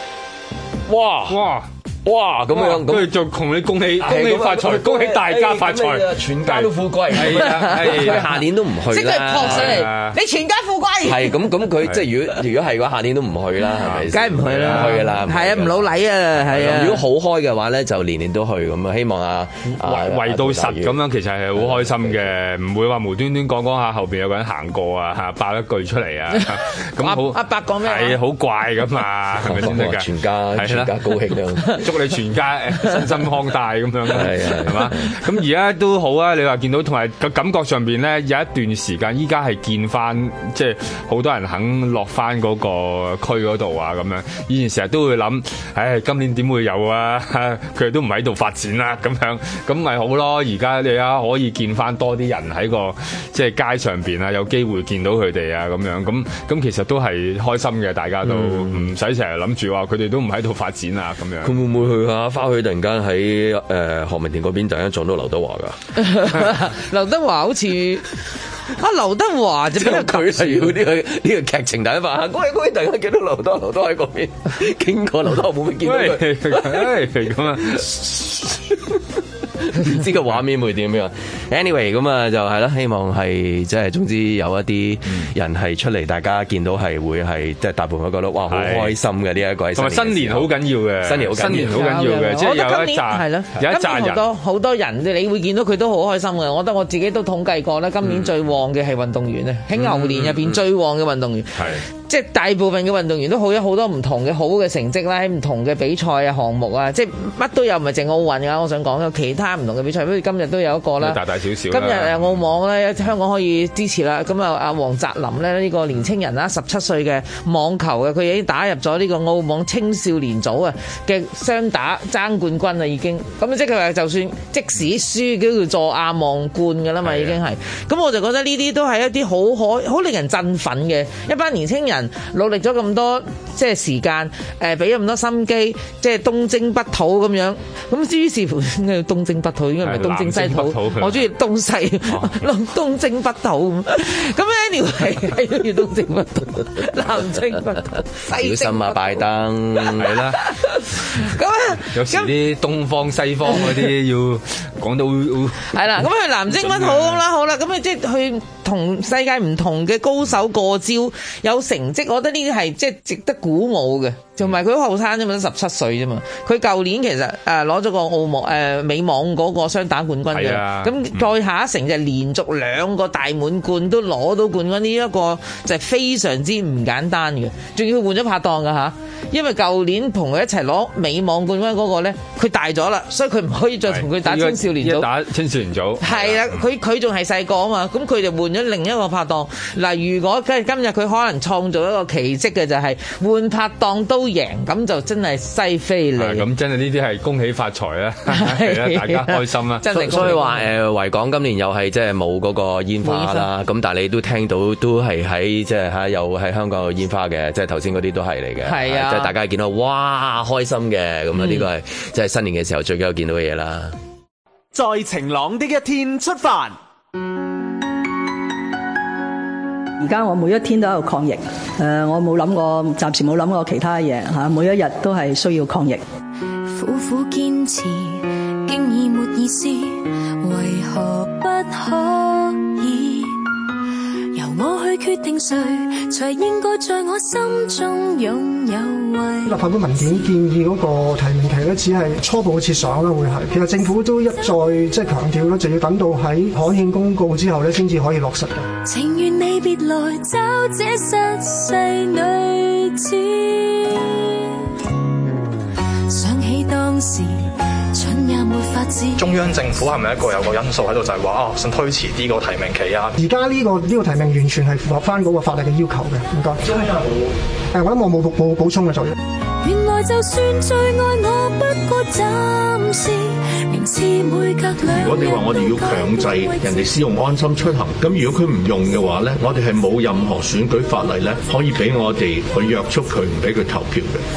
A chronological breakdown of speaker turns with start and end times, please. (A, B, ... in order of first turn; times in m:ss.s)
0:00.9-0:01.4 A
0:01.3-0:01.7 B
0:02.0-0:03.1 A
0:02.5-0:08.3 B
0:04.0-0:09.9 A
0:07.6-0:08.1 C
0:08.9-0:11.4 C
0:09.4-0:10.2 B
0:11.0-0:21.0 A
0:13.8-0:15.0 B
0:14.1-0:17.0 C
0:19.8-0:30.9 B
0:21.5-0:22.3 A
0:27.0-0:28.2 C
0:29.4-0:31.8 A
0:31.7-1:01.6 B
0:34.1-0:35.1 A
0:58.2-0:58.8 A
1:01.4-1:05.8 A
1:06.0-1:10.8 C
1:09.7-1:19.0 A
1:15.8-1:18.4 B
1:19.6-1:32.0 A
1:28.5-1:28.9 B
1:29.7-1:34.2 B
1:31.7-2:29.2 C
1:39.8-1:40.6 A
1:51.0-1:52.4 B
2:19.8-2:21.3 B
2:22.1-2:22.4 B
2:28.3-2:30.4 A
2:29.8-2:32.3 C
2:30.0-2:30.4 B
2:31.9-2:37.2 B
2:35.7-3:05.1 C
2:50.3-2:51.2 B
3:03.9-3:06.6 B
3:06.0-3:16.4 C
3:16.2-3:19.8 B
3:18.3-3:20.6 C
3:19.9-3:34.0 A
3:23.0-3:23.5 C
3:28.6-3:29.3 C
3:34.7-3:36.8 D
3:40.0-3:46.0 E
3:46.6-3:53.6 F
3:54.3-4:00.3 F
3:59.4-4:08.7 G
4:08.8-4:14.5 F
4:16.1-4:19.3 F
4:19.2-4:23.2 H
4:23.2-4:26.8 G
4:27.7-4:29.1 G
4:29.6-4:37.1 F
4:34.8-4:44.2 I